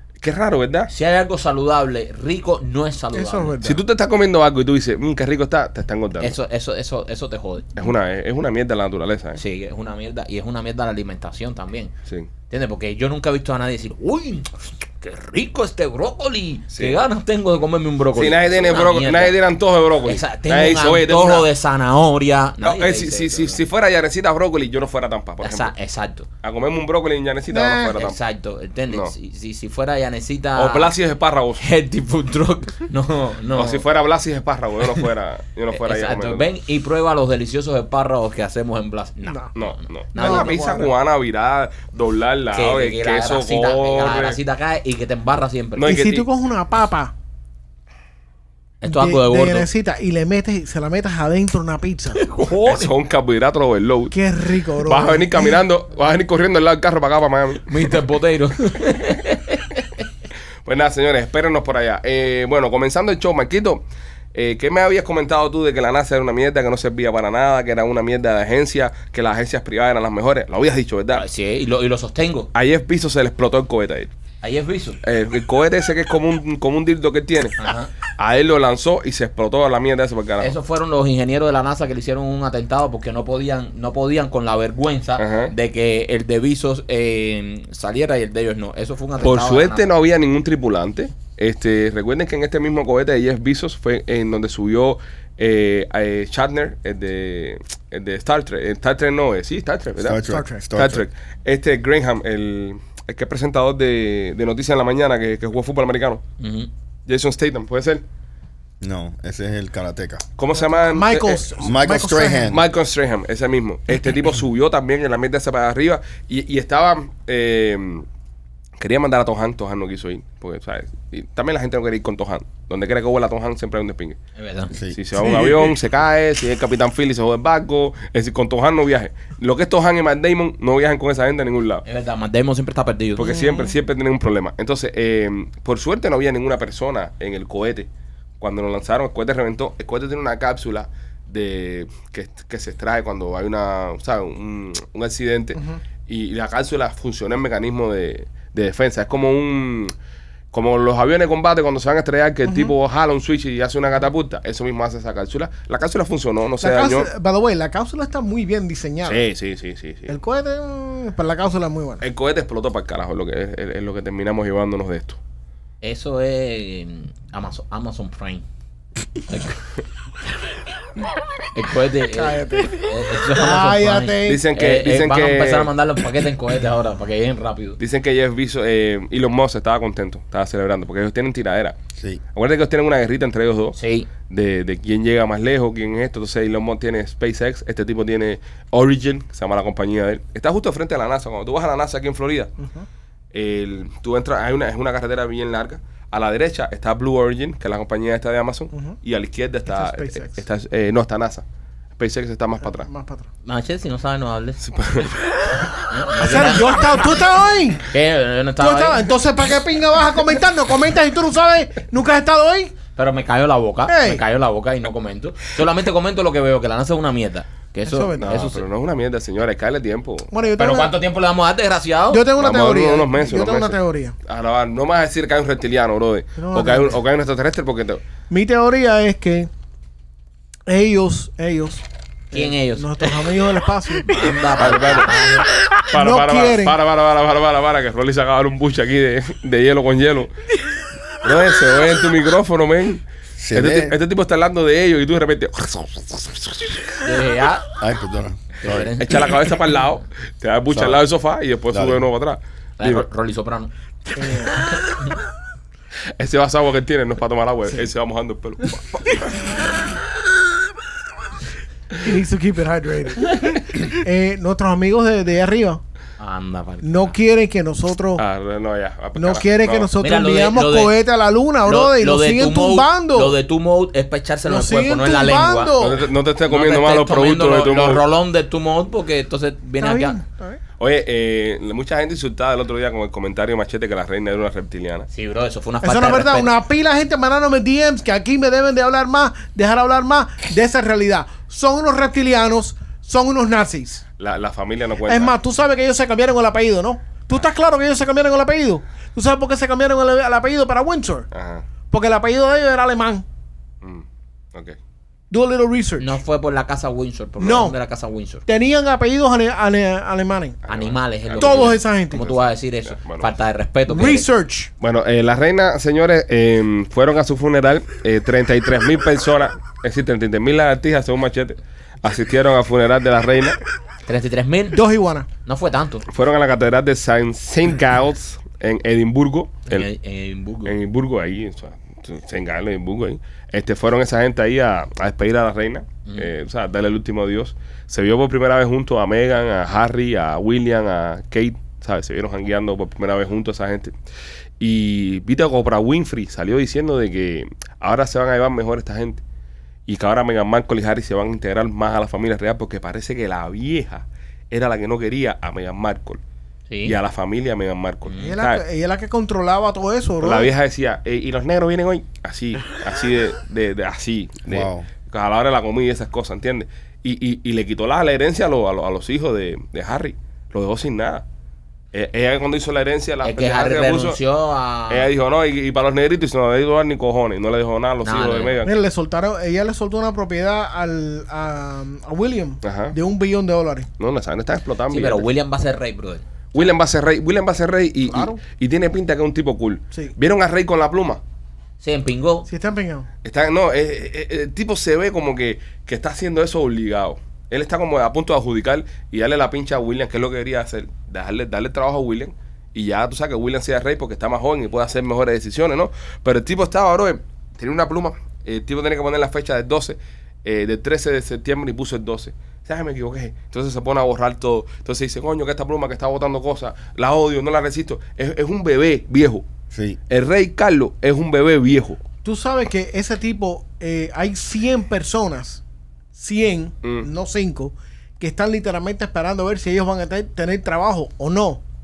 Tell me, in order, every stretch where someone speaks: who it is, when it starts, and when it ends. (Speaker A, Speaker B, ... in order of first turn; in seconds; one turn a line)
Speaker A: 0.2-0.9
Speaker B: 0.9-3.6
Speaker C: 3.1-3.8
Speaker A: 3.6-6.3
Speaker B: 6.2-7.7
Speaker A: 7.8-9.4
Speaker B: 9.3-11.9
Speaker B: 12.5-19.4
Speaker A: 18.1-21.5
Speaker B: 20.0-23.6
Speaker A: 22.6-25.7
Speaker B: 25.4-26.3
Speaker A: 26.4-28.2
Speaker C: 27.5-27.9
Speaker B: 27.9-30.9
Speaker A: 30.6-31.6
Speaker B: 31.6-33.8
Speaker A: 33.5-36.5
Speaker B: 35.7-40.6
Speaker A: 39.5-44.4
Speaker C: 40.1-40.9
Speaker B: 42.5-46.0
Speaker A: 45.8-46.3
Speaker C: 45.8-47.1
Speaker B: 48.8-49.7
Speaker C: 48.8-52.2
Speaker B: 52.1-52.9
Speaker A: 52.5-54.2
Speaker C: 54.1-55.6
Speaker A: 54.8-57.9
Speaker B: 57.7-59.8
Speaker A: 60.6-63.8
Speaker A: 64.3-71.2
Speaker B: 71.1-72.5
Speaker A: 72.5-74.1
Speaker B: 74.4-75.0
Speaker A: 75.0-77.6
Speaker B: 77.6-77.9
Speaker A: 78.2-80.5
Speaker B: 80.4-89.9
Speaker A: 85.2-85.5
Speaker A: 89.2-100.2
Speaker D: 100.0-101.0
Speaker C: 100.3-100.6
Speaker A: 100.7-106.2
Speaker B: 106.4-106.7
Speaker A: 107.1-108.0
Speaker D: 108.8-110.2
Speaker A: 110.4-111.4
Speaker C: 110.5-112.5
Speaker D: 111.6-112.6
Speaker A: 112.5-118.0
Speaker A: 118.8-124.2
Speaker B: 124.4-124.7
Speaker A: 124.9-131.8
Speaker C: 125.2-125.7
Speaker B: 131.8-133.4
Speaker A: 133.2-137.9
Speaker C: 133.2-133.7
Speaker A: 138.4-149.9
Speaker A: 150.5-157.1
Speaker C: 152.4-152.7
Speaker C: 156.6-159.3
Speaker A: 159.1-160.2
Speaker C: 160.1-162.0
Speaker A: 162.0-165.2
Speaker B: 165.8-168.4
Speaker B: 169.3-169.6
Speaker B: 171.5-177.8
Speaker C: 172.1-174.4
Speaker A: 174.2-175.7
Speaker A: 177.8-181.8
Speaker A: 182.3-183.8
Speaker B: 183.7-184.1
Speaker A: 184.3-192.5
Speaker C: 192.6-192.9
Speaker A: 193.3-201.4
Speaker C: 199.7-200.4
Speaker A: 202.0-202.9
Speaker C: 202.6-203.3
Speaker B: 203.4-204.6
Speaker A: 204.6-205.2
Speaker B: 205.8-206.8
Speaker C: 206.2-207.9
Speaker B: 207.9-209.0
Speaker C: 208.6-212.8
Speaker B: 212.9-218.6
Speaker C: 213.9-214.2
Speaker C: 217.8-218.3
Speaker A: 218.2-220.3
Speaker C: 220.3-220.9
Speaker B: 220.6-222.3
Speaker C: 222.1-224.1
Speaker A: 222.4-228.0
Speaker C: 226.4-227.0
Speaker C: 228.3-229.5
Speaker C: 230.7-234.2
Speaker B: 232.3-233.1
Speaker B: 234.1-235.5
Speaker A: 234.6-235.1
Speaker A: 235.9-240.3
Speaker C: 235.9-236.7
Speaker A: 241.2-246.9
Speaker D: 243.4-243.9
Speaker B: 247.0-247.7
Speaker D: 247.8-248.9
Speaker B: 248.6-249.3
Speaker A: 248.7-253.0
Speaker D: 250.7-251.0
Speaker D: 251.7-252.1
Speaker B: 252.8-253.7
Speaker C: 254.2-254.6
Speaker B: 254.4-255.1
Speaker A: 256.2-259.5
Speaker C: 262.0-265.8
Speaker B: 266.2-267.1
Speaker C: 266.8-268.2
Speaker A: 268.2-269.9
Speaker C: 269.1-273.4
Speaker B: 270.0-270.9
Speaker B: 271.6-275.8
Speaker C: 274.4-276.0
Speaker A: 275.8-278.0
Speaker B: 276.5-280.2
Speaker C: 279.8-280.6
Speaker A: 280.8-285.1
Speaker B: 285.1-286.5
Speaker C: 285.8-294.0
Speaker A: 294.2-295.3
Speaker C: 295.1-301.3
Speaker A: 301.3-301.6
Speaker C: 301.9-303.2
Speaker A: 303.8-304.8
Speaker C: 305.3-306.2
Speaker B: 306.0-308.4
Speaker C: 307.4-307.8
Speaker C: 308.4-310.6
Speaker A: 310.6-313.3
Speaker B: 310.7-314.3
Speaker C: 311.4-312.3
Speaker C: 313.9-314.7
Speaker A: 314.8-323.6
Speaker B: 324.1-324.8
Speaker C: 324.7-325.3
Speaker B: 325.4-326.1
Speaker A: 326.1-329.9
Speaker B: 329.7-330.7
Speaker A: 330.6-343.9
Speaker A: 344.6-349.2
Speaker A: 349.9-356.2
Speaker B: 356.7-356.9
Speaker A: 356.8-358.6
Speaker B: 358.1-358.4
Speaker C: 358.2-360.5
Speaker A: 360.2-371.2
Speaker D: 364.5-364.9
Speaker A: 371.9-374.2
Speaker B: 373.2-375.1
Speaker A: 374.9-378.7
Speaker B: 378.0-378.6
Speaker C: 378.6-383.9
Speaker A: 382.6-382.9
Speaker A: 384.0-385.2
Speaker B: 384.9-386.7
Speaker A: 386.5-391.2
Speaker C: 388.1-388.4
Speaker B: 391.8-392.5
Speaker C: 392.5-393.1
Speaker A: 393.2-419.4
Speaker D: 419.7-420.0
Speaker A: 420.1-422.0
Speaker C: 422.2-425.6
Speaker C: 426.1-431.6
Speaker A: 426.8-427.1